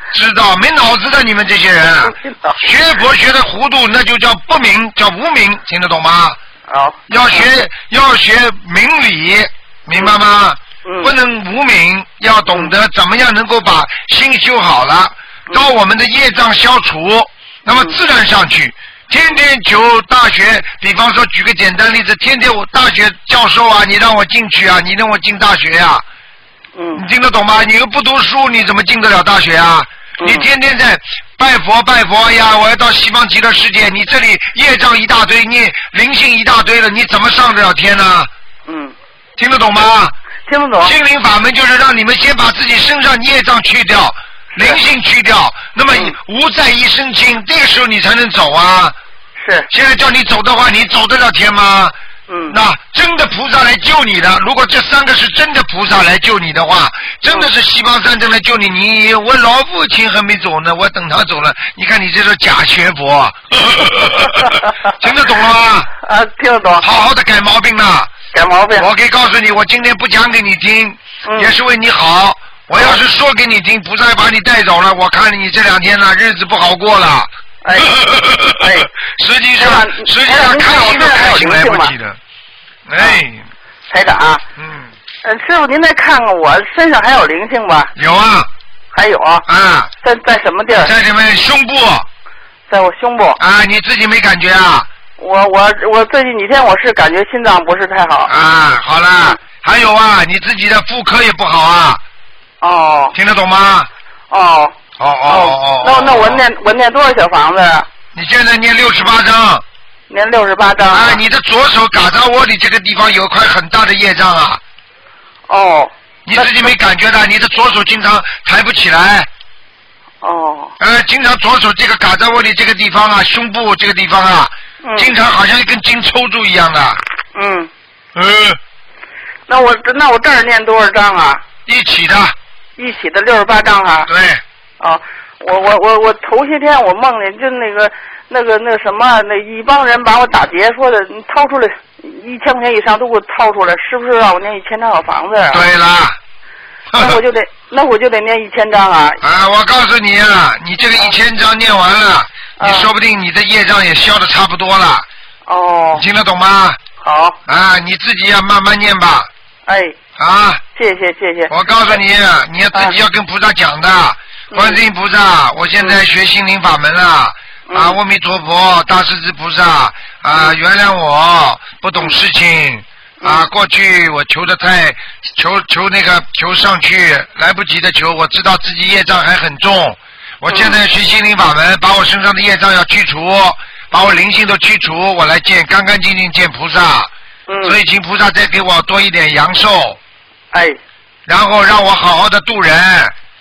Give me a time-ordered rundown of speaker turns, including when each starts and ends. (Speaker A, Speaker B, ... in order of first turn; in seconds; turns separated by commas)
Speaker A: 0.1-6.4, Speaker B: 2.1-2.6, Speaker B: 6.7-7.4, Speaker A: 7.1-26.0, Speaker B: 10.8-11.1, Speaker B: 26.8-27.0, Speaker A: 26.9-38.3, Speaker B: 30.2-30.5, Speaker B: 38.7-39.0, Speaker A: 39.4-40.1, Speaker B: 40.5-40.9, Speaker A: 40.8-49.0, Speaker B: 44.6-44.8, Speaker B: 49.4-49.7, Speaker A: 49.7-51.9, Speaker B: 52.3-52.6, Speaker A: 52.5-65.9, Speaker B: 66.0-66.8, Speaker A: 66.8-68.1, Speaker B: 68.3-68.9, Speaker A: 68.8-82.2, Speaker B: 71.3-71.5, Speaker B: 77.6-77.9, Speaker B: 78.5-78.9, Speaker B: 79.6-81.9, Speaker A: 82.9-83.5, Speaker B: 83.9-84.4, Speaker A: 84.6-84.9, Speaker B: 85.2-87.9, Speaker A: 88.0-88.5, Speaker B: 88.9-89.5, Speaker A: 89.5-89.9, Speaker B: 90.0-90.9, Speaker A: 90.8-92.1, Speaker B: 92.7-93.4, Speaker A: 93.4-94.9, Speaker B: 95.2-98.3, Speaker A: 98.3-102.0, Speaker B: 102.6-103.2, Speaker A: 103.1-103.9, Speaker B: 104.3-104.8, Speaker A: 105.0-106.5, Speaker B: 105.3-107.9, Speaker A: 108.1-109.6, Speaker B: 110.1-111.2, Speaker A: 110.8-114.6, Speaker B: 115.5-116.7, Speaker A: 116.3-119.3, Speaker B: 120.2-120.7, Speaker A: 120.8-127.0, Speaker B: 124.8-125.1, Speaker B: 127.3-127.7, Speaker A: 128.2-128.6, Speaker B: 129.5-131.4, Speaker A: 131.7-132.3, Speaker B: 132.8-134.1, Speaker A: 134.1-134.4, Speaker B: 134.8-145.7, Speaker A: 145.5-146.2, Speaker A: 146.9-147.2, Speaker B: 147.0-149.2, Speaker A: 149.2-155.1, Speaker B: 152.6-152.9, Speaker B: 155.5-156.1, Speaker A: 155.9-156.8, Speaker B: 157.0-157.4, Speaker A: 157.5-159.3, Speaker B: 159.7-160.0, Speaker A: 160.2-160.6, Speaker B: 160.8-161.5, Speaker A: 161.5-187.1, Speaker B: 162.7-163.0, Speaker B: 164.5-164.8, Speaker B: 167.7-168.0, Speaker B: 173.2-173.5, Speaker B: 180.5-180.8, Speaker B: 187.5-187.8, Speaker A: 187.7-190.0, Speaker B: 190.5-190.8, Speaker A: 191.3-193.1